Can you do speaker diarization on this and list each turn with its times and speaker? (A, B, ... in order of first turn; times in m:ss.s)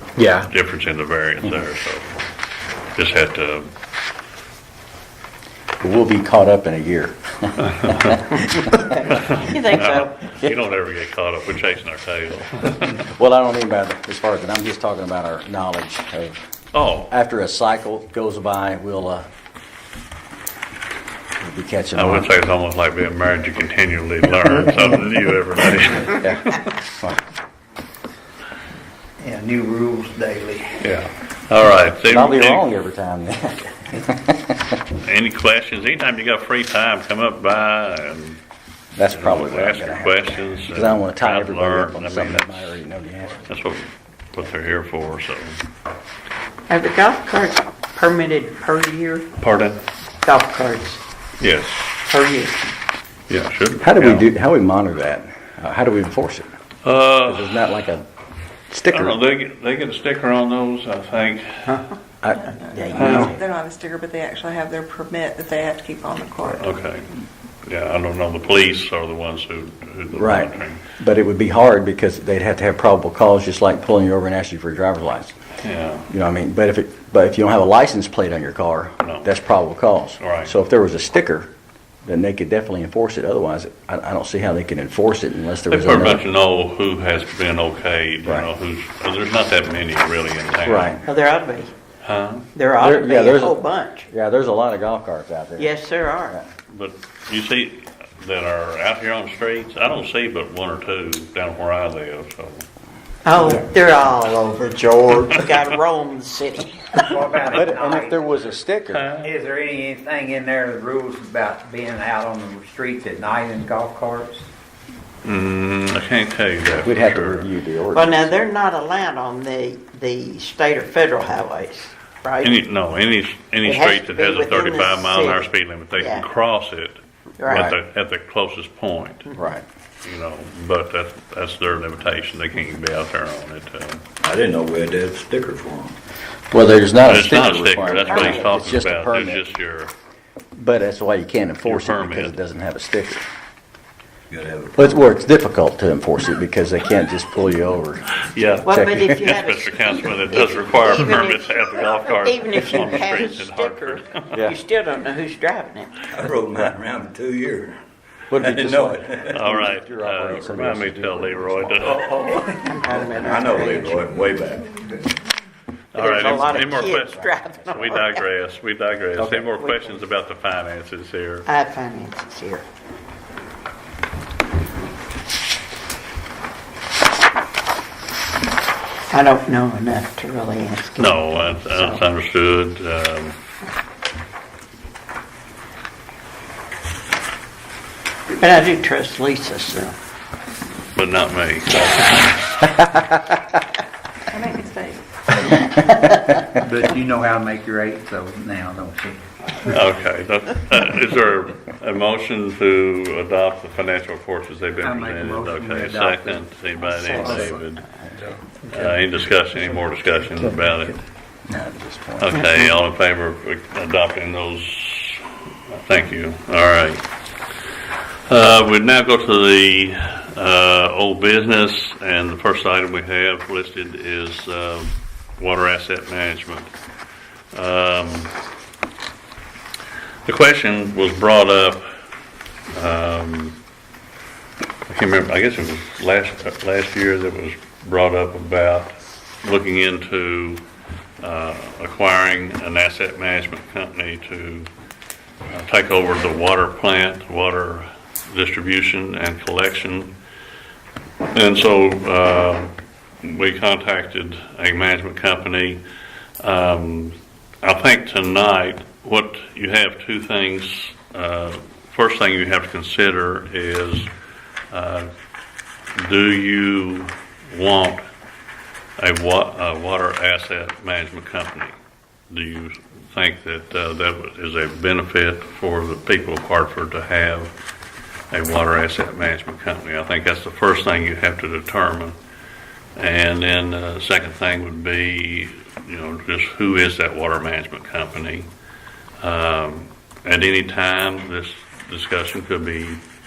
0:00.3-0:02.1 A
0:02.9-0:03.7 A
0:05.8-0:08.9 B
0:07.7-0:08.2 A
0:08.9-0:10.2 C
0:08.9-0:13.0 A
0:12.9-0:16.4 B
0:16.7-0:17.1 A
0:17.1-0:19.2 B
0:21.4-0:22.3 B
0:21.9-0:26.6 A
0:26.1-0:27.2 B
0:29.2-0:30.8 D
0:30.8-0:32.6 A
0:32.0-0:34.8 B
0:34.9-0:38.4 A
0:39.0-0:43.5 B
0:39.1-0:42.8 A
0:43.5-0:45.6 A
0:46.7-0:49.3 C
0:49.4-0:49.8 A
0:50.2-0:51.0 C
0:51.4-0:51.9 A
0:52.1-0:52.7 C
0:53.3-0:54.3 A
0:53.8-0:56.5 B
0:56.8-0:57.7 A
0:57.3-0:58.0 B
0:58.7-0:59.2 B
0:58.9-1:01.9 A
1:02.2-1:03.4 B
1:02.4-1:06.6 E
1:02.7-1:03.2 C
1:03.0-1:03.3 A
1:06.6-1:10.8 A
1:10.1-1:15.3 B
1:15.6-1:16.1 A
1:16.1-1:21.5 B
1:19.0-1:19.3 A
1:20.2-1:20.5 A
1:22.0-1:26.2 B
1:25.7-1:31.0 A
1:30.6-1:31.1 B
1:31.0-1:31.7 C
1:32.0-1:32.5 A
1:32.5-1:34.1 C
1:32.8-1:35.7 B
1:35.6-1:36.4 C
1:36.7-1:42.6 A
1:43.2-1:47.1 C
1:47.0-1:48.3 D
1:47.4-1:47.7 A
1:47.5-1:49.1 B
1:48.9-1:49.3 A
1:49.2-1:54.5 D
1:55.2-1:57.5 A
1:56.7-1:58.4 B
1:57.9-2:02.6 C
2:02.4-2:09.3 A
2:03.6-2:06.2 C
2:07.4-2:07.7 C
2:07.5-2:07.8 B
2:09.3-2:09.6 B
2:10.0-2:14.0 A
2:14.2-2:16.0 F
2:16.5-2:19.4 B
2:17.0-2:19.9 A
2:18.0-2:18.5 C
2:20.5-2:23.3 B
2:21.6-2:22.4 A
2:24.3-2:24.9 F
2:24.8-2:28.0 B
2:28.2-2:34.3 A
2:28.6-2:29.3 B
2:28.6-2:36.1 C
2:36.1-2:37.7 F
2:38.3-2:42.1 B
2:38.4-2:39.2 F
2:39.3-2:42.1 A
2:42.1-2:42.5 F
2:42.5-2:44.1 C
2:43.2-2:44.7 F
2:45.9-2:51.5 A
2:46.0-2:48.2 C
2:49.2-2:49.4 B
2:49.3-2:50.0 C
2:51.4-2:52.6 C
2:59.1-3:02.0 C
3:01.0-3:03.4 A
3:08.3-3:09.9 C
3:10.9-3:12.7 A
3:14.3-3:15.0 E
3:15.7-3:16.4 C
3:16.5-3:19.2 D
3:19.5-3:27.8 A
3:24.8-3:26.4 D
3:26.8-3:27.4 C
3:28.7-3:31.0 A
3:31.5-3:32.3 B
3:32.2-3:37.0 A
3:38.3-3:46.7 A
3:47.5-3:48.3 A
3:50.2-3:51.9 A
3:52.7-3:53.6 A
3:54.9-4:00.6 A
4:01.2-4:04.7 A
4:05.5-4:10.2 A
4:11.3-4:15.8 A
4:16.4-4:24.1 A
4:24.7-4:25.1 A
4:25.9-4:28.0 A
4:29.0-4:31.8 A
4:32.3-4:37.5 A
4:38.3-4:42.2 A
4:43.0-4:48.5 A
4:49.2-4:53.0 A